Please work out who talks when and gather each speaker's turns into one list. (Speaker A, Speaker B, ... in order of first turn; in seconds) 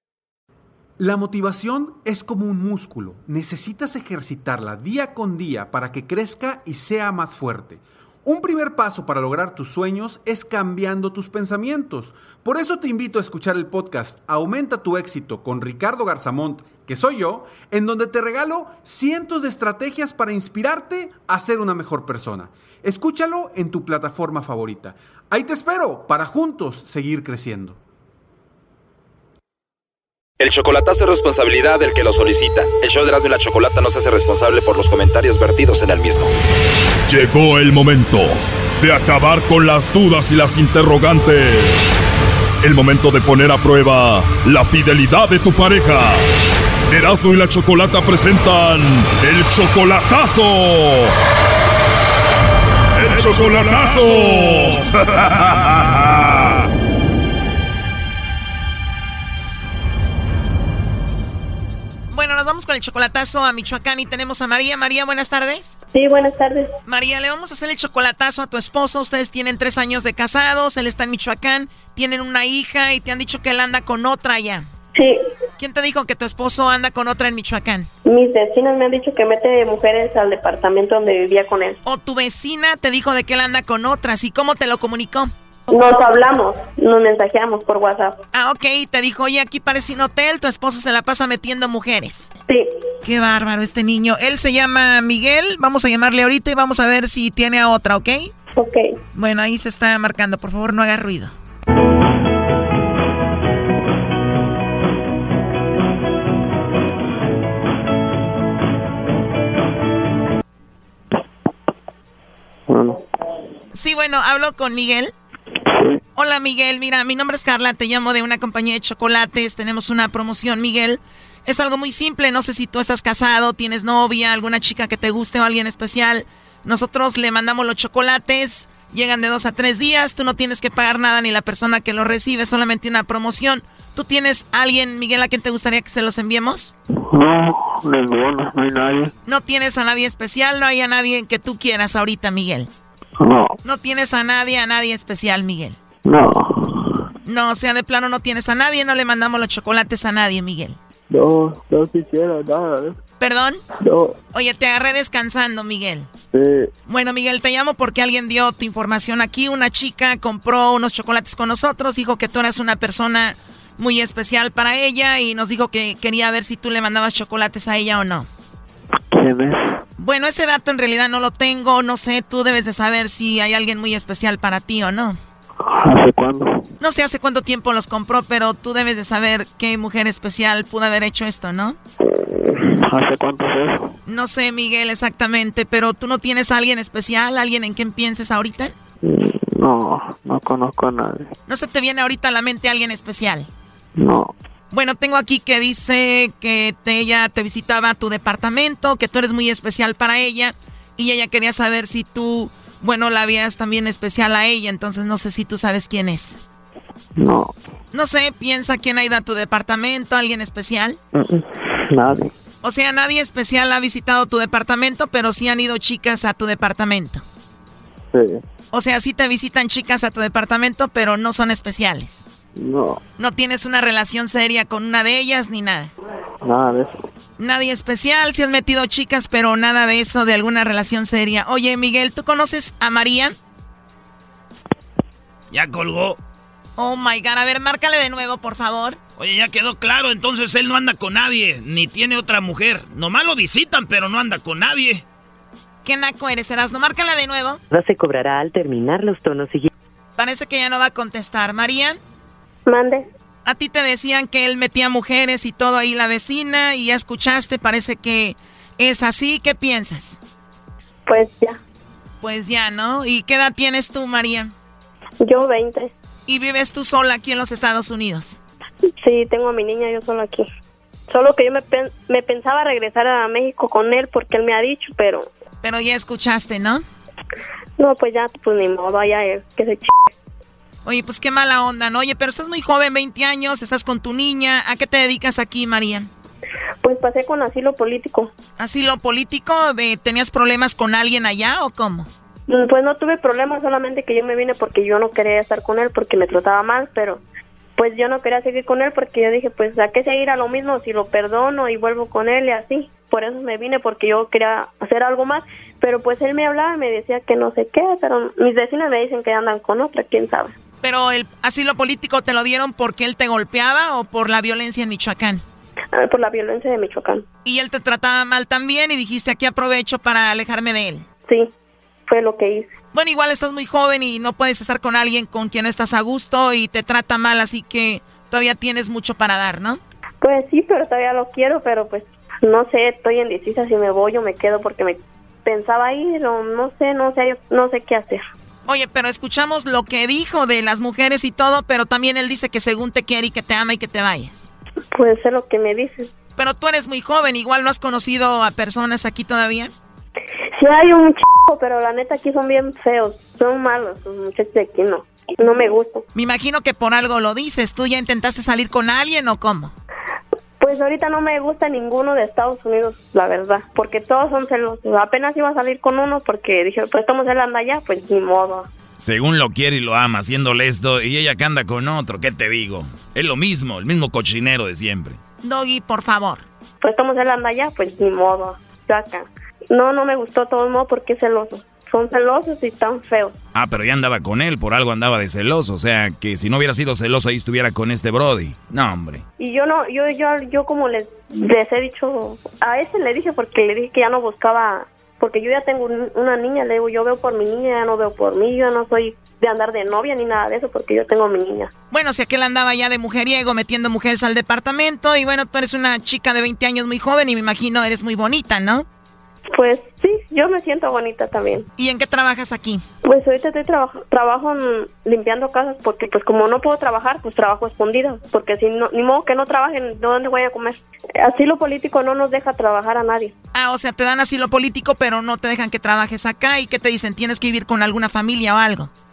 Speaker A: 1.0-27.8
Speaker B: 30.4-36.3
Speaker C: 37.1-42.0, 42.6-46.3, 46.9-51.1, 53.0-56.6
Speaker D: 62.1-65.8, 66.9-74.7, 75.6-77.9, 81.8-85.3, 88.3-92.3, 93.0-98.3, 99.2-101.3, 113.7-115.1, 116.2-136.7, 139.2-142.7, 143.6-145.8, 147.2-150.8, 153.2-153.6, 154.3-156.1, 156.9-168.3, 170.0-175.2, 176.8-181.8, 184.1-188.7, 191.5-193.5, 194.7-206.4, 207.9-211.0, 212.6-217.2, 218.7-222.3, 223.2-225.9, 227.4-233.3, 236.8-239.0, 245.8-247.6, 250.2-252.0, 253.4-260.2, 262.2-264.5, 266.3-268.4, 275.6-276.8, 280.9-286.1, 288.6-292.1, 310.8-315.4, 317.4-321.1, 322.9-329.8, 338.7-344.5, 346.4-349.7, 356.1-359.7, 375.4-376.5, 401.9-408.9, 411.8-412.8, 423.5-428.9
Speaker E: 65.9-66.7, 74.9-75.2, 78.0-81.8, 85.7-88.2, 98.6-98.9, 252.7-253.1, 261.1-261.6, 265.2-265.9, 269.0-270.5, 271.1-275.2, 277.8-280.1, 286.8-288.3, 292.5-297.2, 297.8-310.5, 315.9-317.2, 322.1-322.7, 330.2-338.2, 344.9-346.1, 350.6-356.0, 360.6-368.7, 376.8-383.4, 389.4-401.7, 409.5-411.7, 413.0-423.3
Speaker F: 112.7-113.0, 137.1-139.1, 143.2-143.6, 146.1-147.0, 151.1-153.0, 153.8-154.2, 156.3-156.7, 169.1-169.8, 175.6-176.7, 182.1-183.9, 189.0-191.3, 194.0-194.3, 207.2-207.6, 211.1-212.3, 218.1-218.4, 222.6-223.0, 226.4-226.9
Speaker G: 235.5-236.2, 239.2-245.1, 369.0-375.2, 383.5-389.2
Speaker H: 247.7-249.7